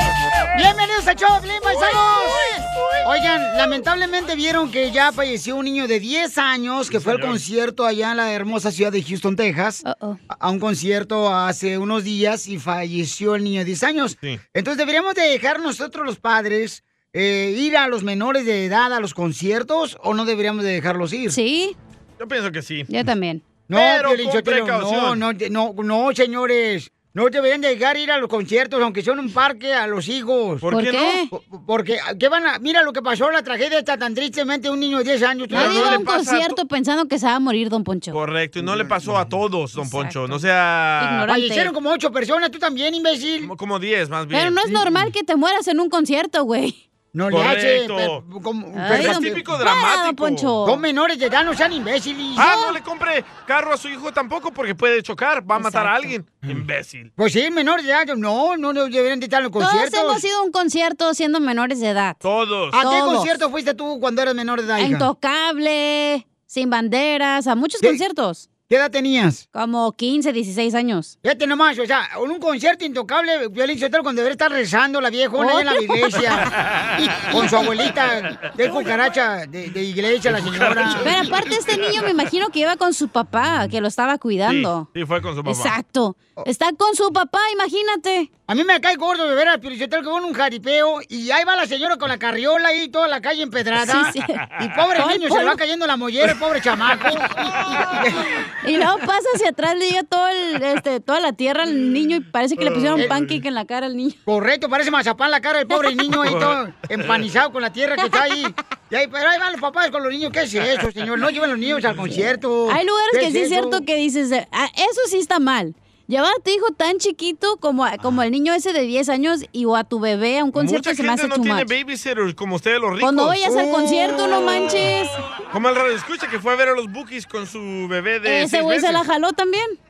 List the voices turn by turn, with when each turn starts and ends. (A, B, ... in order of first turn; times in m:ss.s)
0:00.5-0:21.4 A
0:06.9-0:07.4 B
0:09.8-0:10.2 C
0:21.3-0:21.8 C
0:22.2-0:22.9 B
0:22.9-0:23.4 C
0:23.7-0:30.6 A
0:23.7-0:25.2 B
0:30.6-0:31.2 B
0:30.7-0:31.3 C
0:31.3-0:36.0 A
0:35.5-0:36.6 B
0:35.5-0:38.2 C
0:38.1-0:41.2 B
0:39.8-0:40.4 C
0:41.0-0:41.7 C
0:41.3-0:43.5 A
0:43.4-0:44.6 B
0:44.3-0:46.8 C
0:47.1-0:49.4 A
0:47.3-0:48.2 B
0:48.8-0:50.8 C
0:48.9-0:50.6 B
0:50.6-0:52.6 A
0:52.4-0:57.1 B
0:52.4-0:52.8 C
0:55.5-0:56.1 C
0:57.2-1:00.2 A
0:59.6-1:02.2 C
1:02.2-1:02.8 B
1:02.7-1:05.1 A
1:02.8-1:03.3 C
1:04.8-1:08.5 C
1:08.7-1:09.4 A
1:09.5-1:11.1 C
1:11.2-1:16.5 A
1:15.4-1:16.2 C
1:16.5-1:17.3 B
1:17.3-1:21.1 A
1:18.3-1:18.9 B
1:20.2-1:21.5 B
1:21.0-1:24.9 C
1:24.5-1:25.7 B
1:25.4-1:28.3 C
1:28.5-1:38.3 A
1:33.8-1:34.4 C
1:35.0-1:35.6 C
1:38.6-1:44.2 C
1:42.6-1:43.4 B
1:44.2-1:53.8 A
1:46.2-1:47.2 B
1:52.7-2:01.7 C
2:00.5-2:03.4 B
2:03.0-2:05.2 C
2:03.5-2:04.7 A
2:05.5-2:09.0 B
2:08.2-2:09.8 C